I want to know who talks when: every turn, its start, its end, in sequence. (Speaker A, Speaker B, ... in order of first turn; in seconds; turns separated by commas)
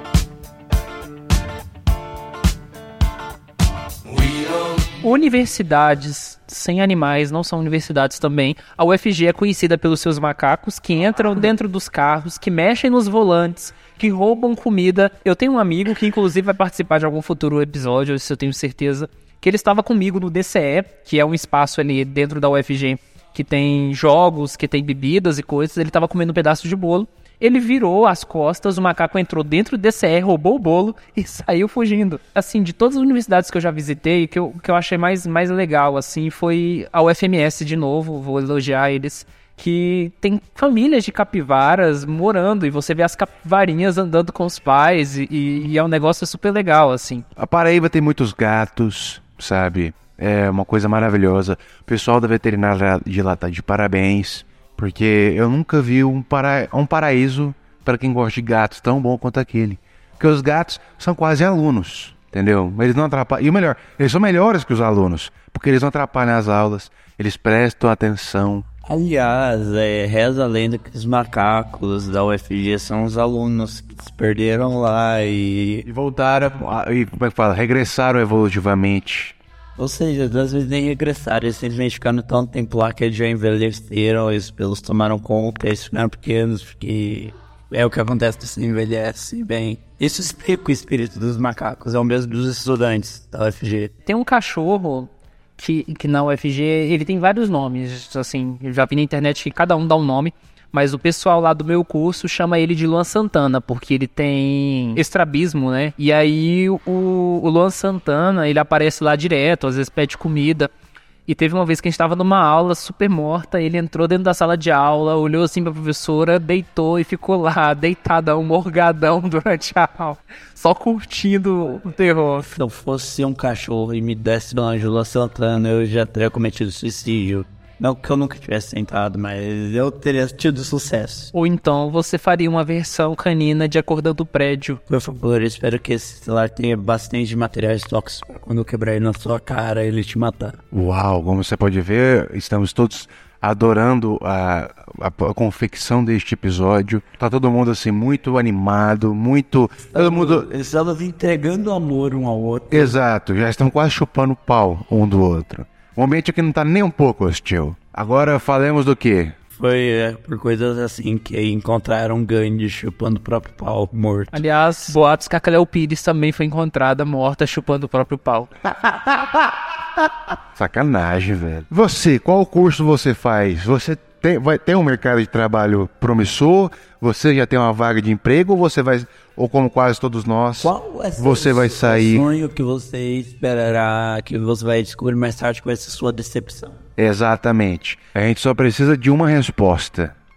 Speaker A: 5.0-47.2, Speaker B: 47.4-68.7, Speaker C: 68.8-75.9, Speaker B: 75.8-79.3, Speaker C: 79.8-93.9, Speaker A: 94.0-110.7, Speaker A: 111.3-122.5, Speaker C: 122.4-131.3, Speaker A: 131.3-134.8, Speaker C: 134.9-140.6, Speaker B: 140.7-150.4, Speaker C: 149.9-152.9, Speaker B: 152.7-159.3, Speaker C: 159.5-164.4, Speaker A: 164.3-168.5, Speaker B: 168.8-169.5, Speaker B: 170.5-182.2, Speaker C: 180.6-186.8, Speaker B: 187.0-190.1